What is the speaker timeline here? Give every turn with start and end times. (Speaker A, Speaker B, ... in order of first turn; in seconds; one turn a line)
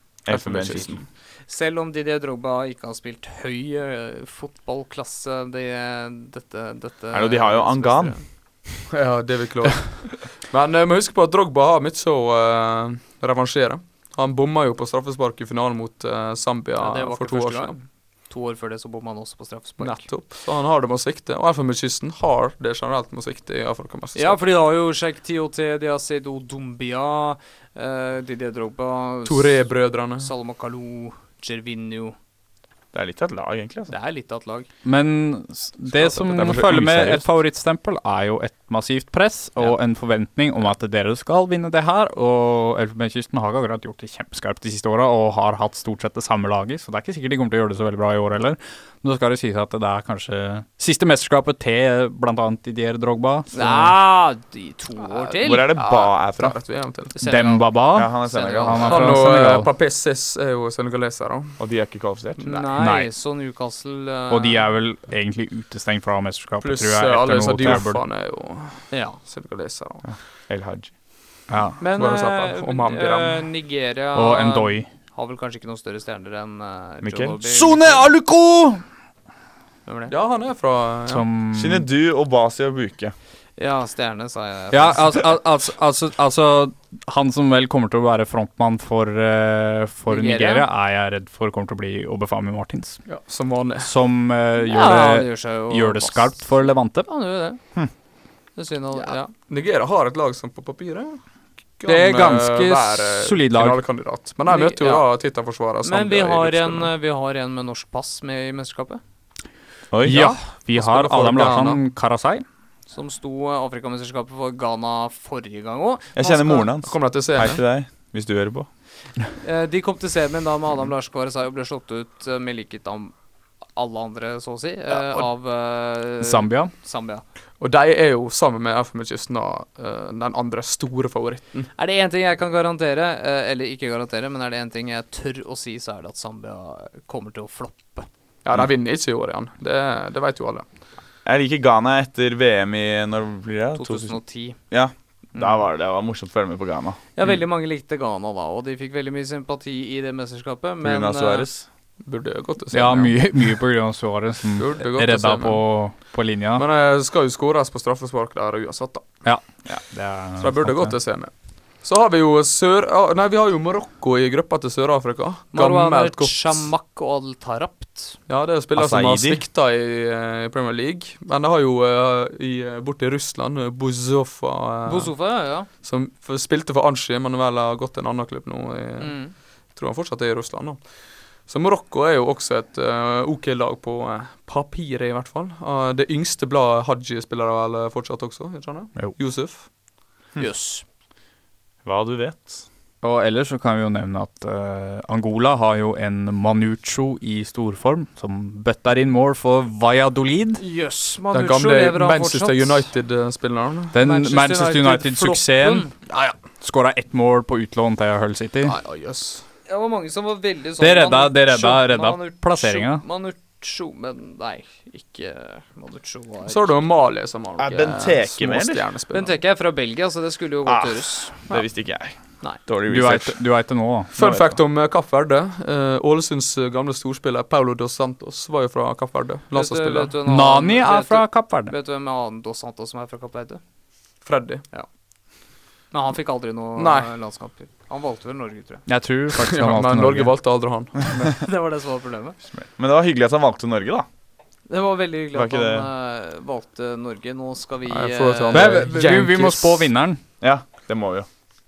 Speaker A: 0.2-1.0
Speaker B: 0.3-1.0
Speaker C: 1.4-8.2
Speaker A: 7.1-8.4
Speaker B: 8.9-17.8
Speaker C: 16.8-20.1
Speaker B: 19.8-24.4
Speaker C: 24.1-32.1
Speaker B: 29.2-30.3
Speaker A: 32.9-33.9
Speaker C: 33.9-34.7
Speaker D: 34.8-54.0
Speaker C: 36.0-36.6
Speaker A: 36.0-37.3
Speaker C: 53.5-56.1
Speaker A: 55.4-56.6
Speaker B: 55.8-57.1
Speaker C: 57.1-59.1
Speaker D: 57.2-59.7
Speaker A: 57.9-59.2
Speaker B: 58.8-61.9
Speaker A: 61.6-62.7
Speaker C: 62.4-64.6
Speaker D: 62.7-63.1
Speaker D: 64.3-68.0
Speaker B: 66.6-70.0
Speaker C: 68.9-69.2
Speaker A: 70.0-70.9
Speaker D: 71.5-71.8
Speaker C: 71.8-78.1
Speaker B: 72.0-73.5
Speaker D: 74.1-74.9
Speaker A: 77.0-77.3
Speaker D: 77.5-78.8
Speaker C: 79.8-80.1
Speaker B: 80.1-81.3
Speaker D: 81.1-81.9
Speaker A: 81.5-83.1
Speaker C: 83.6-85.3
Speaker D: 84.7-93.2
Speaker C: 90.1-90.6
Speaker B: 93.0-93.9
Speaker D: 93.8-97.1
Speaker C: 94.6-98.0
Speaker C: 98.5-99.3
Speaker B: 98.9-106.9
Speaker D: 101.8-103.8
Speaker C: 104.5-109.0
Speaker A: 109.9-110.4
Speaker D: 110.0-112.4
Speaker B: 110.1-111.8
Speaker C: 112.9-116.7
Speaker A: 116.1-118.7
Speaker B: 116.8-117.6
Speaker C: 119.4-127.2
Speaker B: 124.9-125.3
Speaker D: 126.2-126.7
Speaker B: 127.6-131.7
Speaker C: 131.8-138.1
Speaker B: 138.4-140.7
Speaker A: 141.2-147.0
Speaker C: 143.7-145.7
Speaker C: 147.1-151.5
Speaker A: 150.8-151.7
Speaker B: 152.0-153.4
Speaker D: 152.7-156.6
Speaker B: 154.6-159.2
Speaker D: 159.2-161.1
Speaker B: 160.4-166.7
Speaker C: 165.5-168.2
Speaker B: 168.3-189.7
Speaker A: 168.7-169.4
Speaker C: 174.8-175.7
Speaker C: 179.0-179.3
Speaker A: 188.9-189.4
Speaker C: 190.4-190.8
Speaker A: 191.8-192.7
Speaker D: 193.0-200.6
Speaker C: 200.6-202.9
Speaker B: 201.3-203.9
Speaker D: 203.9-206.1
Speaker C: 204.0-205.9
Speaker B: 206.1-206.3
Speaker D: 206.6-208.7
Speaker B: 208.6-209.4
Speaker C: 209.6-216.8
Speaker D: 210.8-213.0
Speaker B: 216.4-219.4
Speaker A: 217.6-218.8
Speaker C: 219.1-221.5
Speaker A: 220.6-224.5
Speaker D: 222.9-224.2
Speaker B: 224.1-230.1
Speaker C: 229.5-233.6
Speaker D: 230.2-231.7
Speaker B: 234.2-234.6
Speaker C: 234.7-238.8
Speaker B: 236.8-237.1
Speaker D: 238.9-240.6
Speaker B: 239.4-241.3
Speaker C: 241.4-242.4
Speaker A: 242.4-244.1
Speaker C: 244.7-248.9
Speaker A: 245.3-245.9
Speaker B: 247.9-249.9
Speaker D: 248.5-250.2
Speaker A: 250.4-251.3